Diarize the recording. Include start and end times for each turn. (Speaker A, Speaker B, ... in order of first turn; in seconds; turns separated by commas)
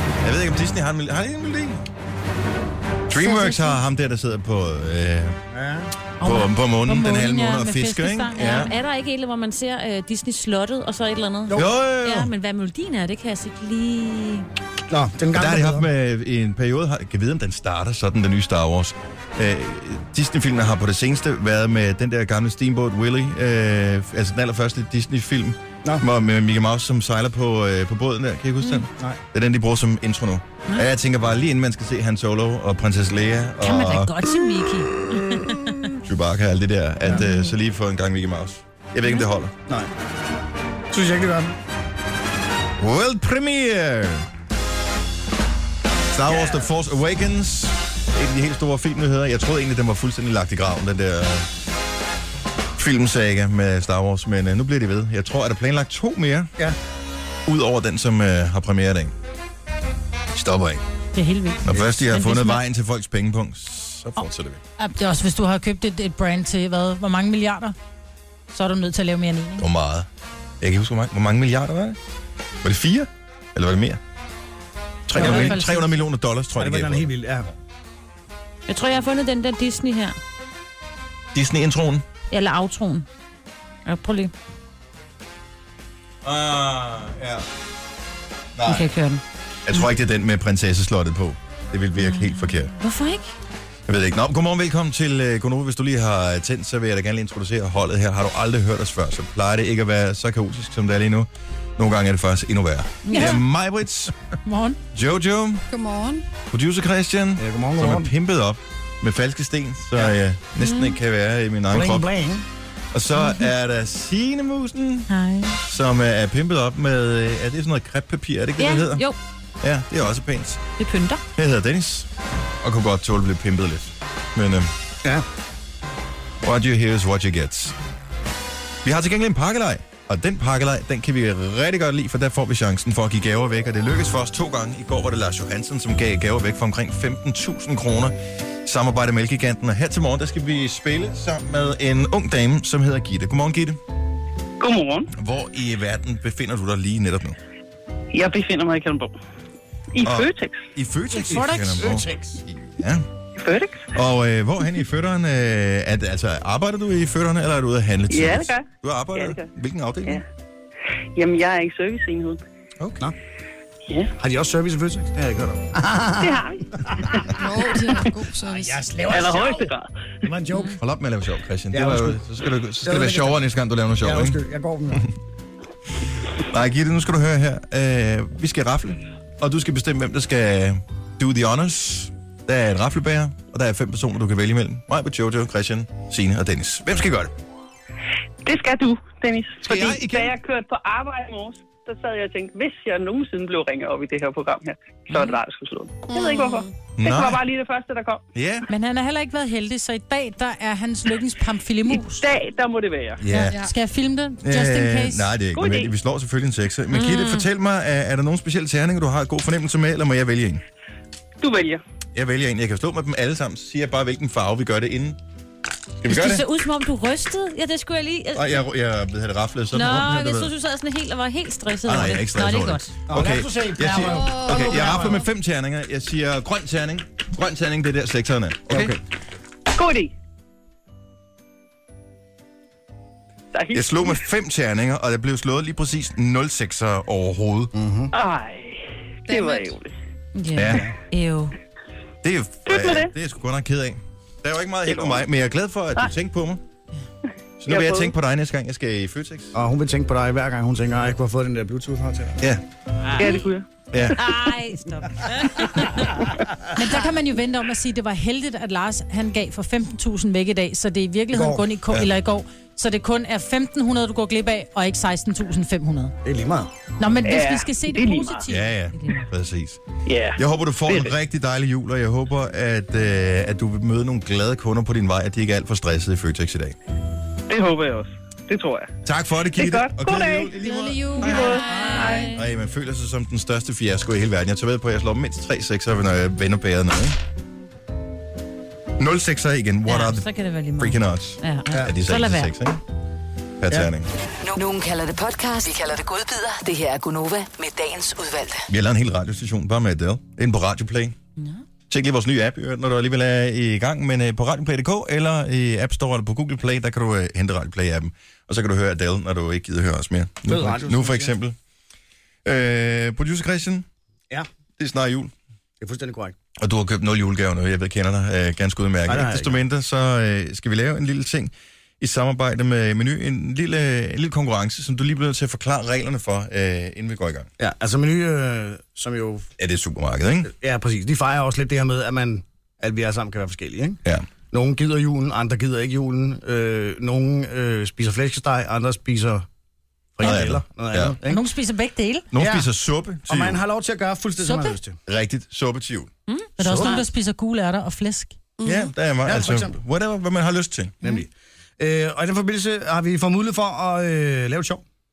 Speaker A: 0.2-1.8, Speaker A: 3.1-5.4, Speaker B: 3.2-3.6, Speaker C: 3.3-3.7, Speaker D: 5.5-5.9, Speaker C: 6.2-8.7, Speaker A: 6.2-8.7, Speaker B: 8.4-14.5, Speaker A: 11.5-12.3, Speaker D: 14.9-15.9, Speaker A: 15.3-34.1, Speaker C: 33.6-34.9, Speaker B: 35.1-35.5, Speaker A: 36.0-39.5, Speaker D: 40.9-41.5, Speaker A: 42.8-44.3, Speaker A: 46.1-51.5, Speaker D: 46.2-46.7, Speaker A: 52.8-56.5, Speaker A: 57.5-59.1, Speaker A: 60.3-60.8, Speaker C: 61.1-62.6, Speaker A: 61.6-64.6, Speaker C: 64.8-67.8, Speaker C: 68.5-69.7, Speaker A: 69.6-70.1, Speaker A: 70.6-72.0, Speaker A: 72.6-74.0, Speaker A: 75.0-77.1, Speaker C: 75.1-75.9, Speaker D: 75.1-75.5, Speaker D: 76.5-77.5, Speaker B: 78.7-80.2, Speaker A: 81.3-82.0, Speaker B: 82.3-83.1, Speaker B: 83.8-84.3, Speaker A: 86.2-87.5, Speaker A: 88.5-88.9, Speaker B: 88.6-89.9, Speaker A: 89.7-92.7, Speaker B: 92.0-93.3, Speaker A: 93.9-104.1, Speaker B: 103.1-103.4, Speaker C: 103.1-103.4, Speaker C: 104.4-104.8, Speaker A: 104.9-105.6, Speaker E: 105.7-106.2, Speaker A: 106.5-112.1, Speaker D: 107.4-108.1, Speaker B: 110.6-110.9, Speaker D: 111.7-112.5, Speaker A: 112.9-115.1, Speaker B: 113.2-113.5, Speaker B: 115.1-115.6, Speaker A: 115.6-119.1, Speaker B: 118.6-119.2, Speaker A: 119.6-120.6, Speaker B: 120.8-121.2, Speaker A: 121.3-122.1, Speaker A: 122.6-124.7, Speaker A: 126.4-127.8, Speaker A: 128.8-143.8, Speaker F: 144.6-145.1, Speaker A: 145.1-147.4, Speaker F: 148.1-149.1, Speaker F: 149.9-150.6, Speaker A: 150.0-153.0, Speaker C: 151.1-151.8, Speaker D: 151.2-152.4, Speaker F: 153.4-153.9, Speaker A: 153.9-160.2, Speaker F: 158.1-159.5, Speaker F: 161.2-162.4, Speaker A: 162.8-163.1, Speaker D: 164.2-167.8, Speaker F: 166.2-166.6, Speaker E: 167.3-168.8, Speaker D: 168.4-169.7, Speaker F: 169.1-169.9, Speaker D: 170.2-170.8, Speaker A: 170.7-174.4, Speaker D: 171.7-172.2, Speaker D: 172.8-173.4, Speaker D: 174.0-175.1, Speaker A: 176.4-187.3, Speaker F: 188.4-198.2, Speaker A: 189.6-190.3, Speaker E: 196.1-196.7, Speaker A: 197.0-197.4, Speaker A: 198.3-198.7, Speaker C: 198.7-202.2, Speaker F: 202.0-203.2, Speaker A: 203.2-203.6, Speaker C: 203.3-205.3, Speaker A: 204.4-210.6, Speaker F: 205.5-205.9, Speaker B: 206.9-207.4, Speaker F: 211.4-211.8, Speaker A: 212.1-215.2, Speaker A: 216.0-216.4, Speaker B: 216.1-218.6, Speaker A: 218.3-220.5, Speaker B: 219.7-222.9, Speaker A: 221.8-229.0, Speaker D: 223.1-225.2, Speaker E: 224.0-225.2, Speaker D: 228.7-229.0, Speaker F: 229.7-230.1, Speaker F: 233.5-234.2, Speaker A: 233.7-237.7, Speaker D: 237.7-238.1, Speaker F: 238.1-239.9, Speaker E: 239.2-239.7, Speaker B: 240.3-241.6, Speaker A: 240.5-240.9, Speaker D: 240.7-240.9, Speaker A: 242.2-246.6, Speaker F: 242.7-243.1, Speaker F: 244.9-245.2, Speaker A: 247.6-249.6, Speaker F: 247.7-248.1, Speaker D: 249.5-252.4, Speaker F: 253.2-253.7, Speaker A: 253.9-254.2, Speaker B: 254.1-256.2, Speaker C: 256.7-266.1, Speaker D: 261.3-261.6, Speaker D: 266.2-266.7, Speaker C: 267.0-268.7, Speaker F: 267.2-268.4, Speaker A: 268.5-269.8, Speaker B: 268.9-269.2, Speaker F: 270.1-271.1, Speaker A: 270.4-276.8, Speaker F: 277.5-278.9, Speaker A: 279.0-287.2, Speaker F: 279.5-280.6, Speaker B: 280.6-282.4, Speaker F: 281.2-282.3, Speaker A: 289.0-290.3, Speaker B: 289.9-292.5, Speaker A: 290.8-292.8, Speaker A: 293.6-294.1, Speaker G: 294.4-298.7, Speaker A: 298.7-301.1, Speaker B: 301.4-301.6, Speaker A: 301.9-311.6, Speaker D: 310.5-311.3, Speaker A: 312.4-313.9, Speaker A: 314.8-315.3, Speaker D: 315.8-316.4, Speaker A: 316.6-327.5, Speaker D: 319.1-319.6, Speaker D: 327.6-329.5, Speaker A: 329.6-330.5, Speaker D: 330.4-339.4, Speaker D: 340.1-341.4, Speaker A: 340.2-341.2, Speaker C: 341.2-342.3, Speaker A: 342.3-343.6, Speaker D: 342.4-342.7, Speaker D: 343.3-345.0, Speaker C: 344.4-344.8, Speaker A: 345.1-346.1, Speaker B: 346.3-346.9, Speaker C: 346.6-348.4, Speaker D: 346.6-347.0, Speaker E: 348.6-348.9, Speaker A: 348.6-351.0, Speaker D: 349.2-349.8, Speaker D: 351.0-354.8